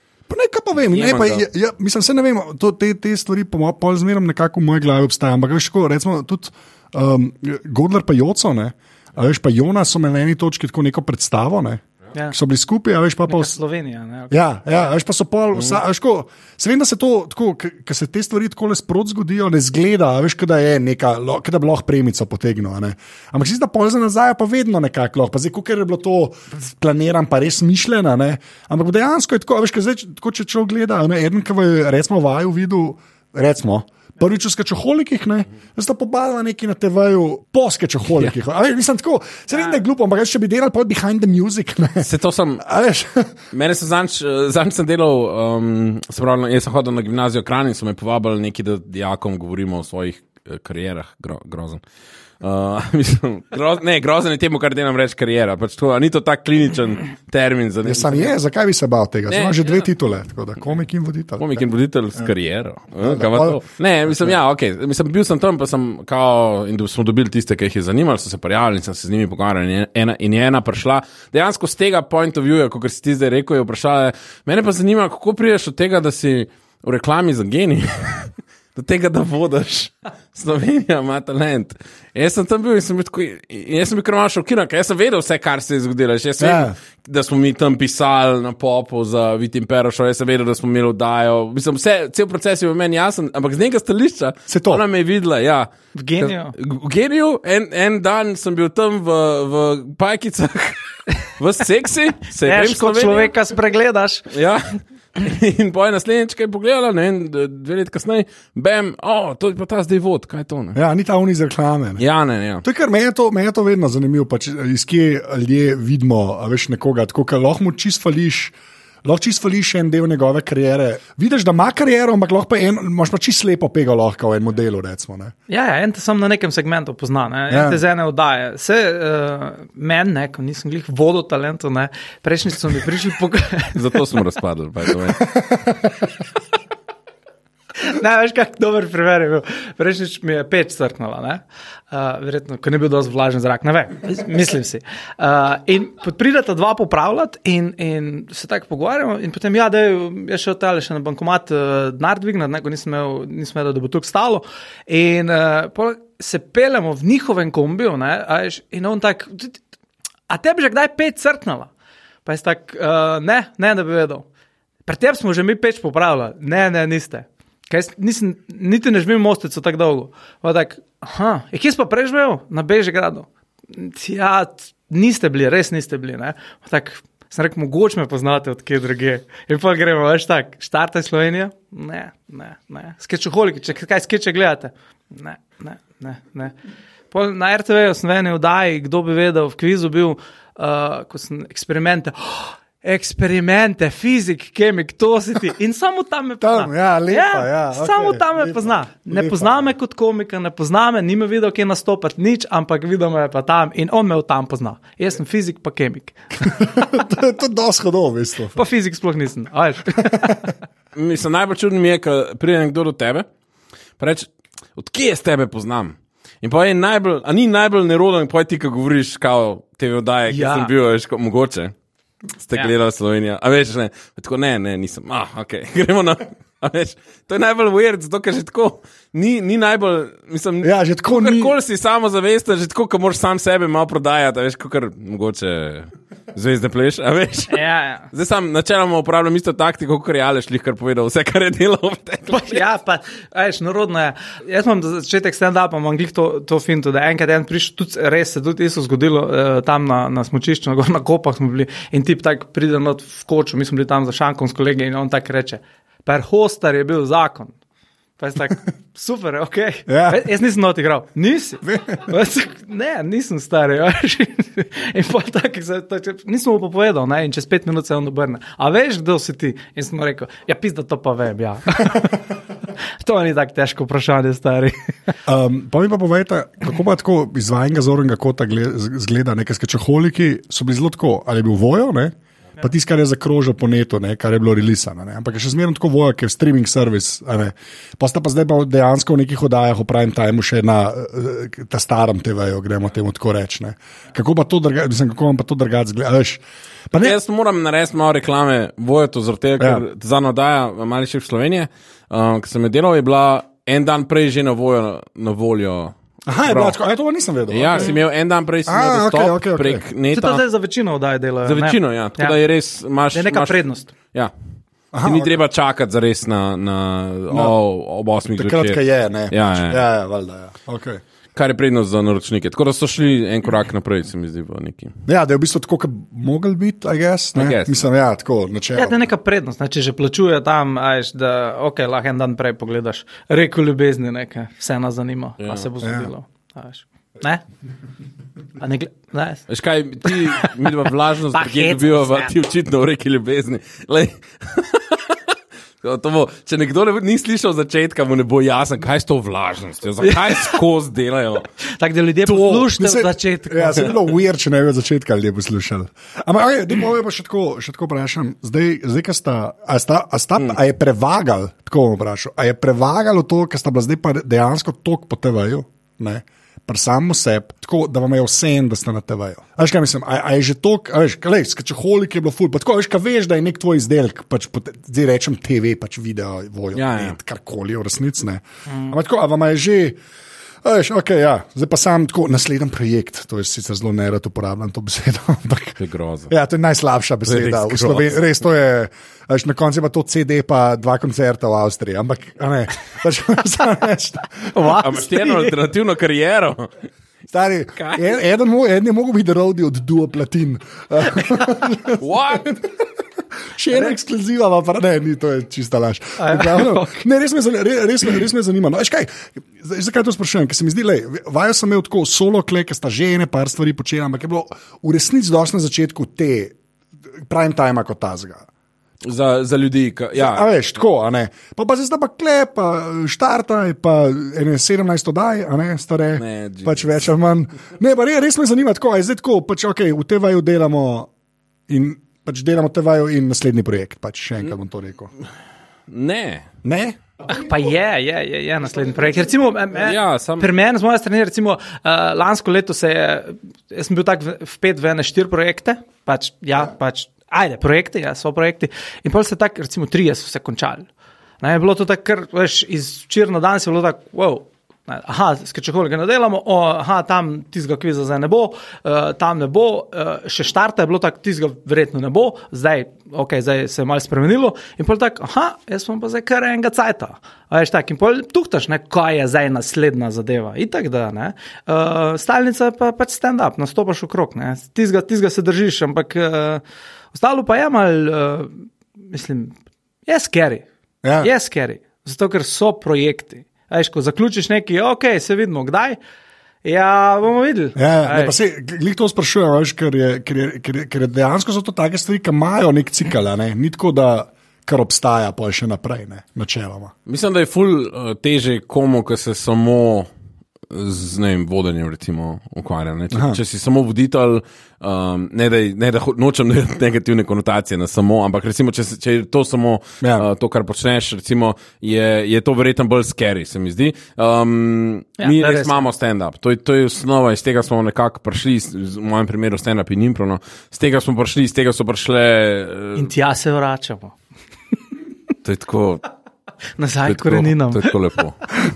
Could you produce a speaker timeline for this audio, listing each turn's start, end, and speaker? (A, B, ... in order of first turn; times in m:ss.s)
0:00.3-0:13.6 A
0:00.9-0:01.4 B
0:13.3-0:14.9 C
0:14.3-0:42.1 A
0:42.0-0:42.6 B
0:42.6-0:43.4 A
0:43.5-0:51.8 B
0:52.4-0:58.3 B
0:57.8-1:01.6 A
0:59.3-0:59.9 B
1:01.4-1:43.3 B
1:03.0-1:04.4 A
1:26.4-1:26.8 A
1:34.5-1:34.8 A
1:35.9-1:36.5 C
1:42.4-1:44.3 C
1:44.3-1:50.8 B
1:50.7-1:52.0 A
1:52.0-1:52.6 B
1:52.6-2:05.3 A
2:05.5-2:13.8 C
2:07.5-2:07.8 A
2:13.7-2:15.3 B
2:15.2-2:16.0 A
2:17.8-2:39.6 C
2:40.3-2:41.7 C
2:42.2-2:44.3 C
2:44.8-3:06.5 C
3:07.1-3:26.5 C
3:16.4-3:19.6 A
3:26.4-3:28.6 A
3:28.5-3:30.5 C
3:30.9-3:33.2 B
3:34.0-3:41.7 B
3:40.3-3:40.7 C
3:42.4-3:57.6 B
3:50.6-3:51.5 A
3:57.5-3:58.1 C
3:58.1-4:02.6 B
4:02.3-4:17.5 C
4:18.2-4:32.2 C
4:19.9-4:20.2 A
4:21.6-4:22.1 A
4:33.0-4:35.1 C
4:35.2-4:57.2 A
4:57.0-5:06.8 B
5:06.2-5:08.0 A
5:07.5-5:10.4 B
5:08.6-5:09.8 A
5:10.1-5:12.4 C
5:11.4-5:13.6 B
5:13.1-5:13.9 C
5:14.9-5:15.4 A
5:15.0-5:19.8 B
5:17.3-5:17.6 A
5:18.4-5:21.0 A
5:21.3-5:24.9 B
5:25.0-5:29.0 A
5:27.3-5:27.8 B
5:28.7-5:37.4 C
5:35.4-5:35.7 B
5:35.8-5:36.1 A
5:38.6-5:39.4 C
5:39.5-5:45.2 B
5:40.0-5:40.5 C
5:41.3-5:42.3 C
5:45.8-5:51.5 B
5:50.0-5:50.6 C
5:51.6-5:54.0 C
5:52.3-6:20.0 A
6:16.7-6:17.2 B
6:20.6-6:25.8 A
6:25.8-6:26.3 B
6:26.3-6:34.7 A
6:27.2-6:28.1 B
6:34.5-6:35.6 C
6:34.8-6:36.7 B
6:37.3-6:42.6 A
6:37.8-6:38.1 B
6:42.0-6:42.5 B
6:43.5-6:56.6 A
6:46.2-6:47.0 C
6:57.3-6:58.4 A
6:59.0-7:00.4 B
7:00.1-7:11.1 A
7:06.2-7:07.0 B
7:11.7-7:15.1 A
7:15.9-7:16.5 B
7:16.6-7:17.0 A
7:17.3-7:30.8 C
7:19.8-7:20.5 B
7:31.4-8:00.6 C
8:01.0-8:01.3 A
8:01.2-8:06.0 C
8:06.6-8:08.4 C
8:07.8-8:16.9 A
8:17.0-8:20.1 B
8:20.7-8:43.1 B
8:23.1-8:23.4 A
8:30.0-8:30.3 A
8:35.2-8:35.8 C
8:42.9-8:44.1 C
8:45.4-8:46.0 B
8:46.8-8:47.9 C
8:47.0-8:48.6 B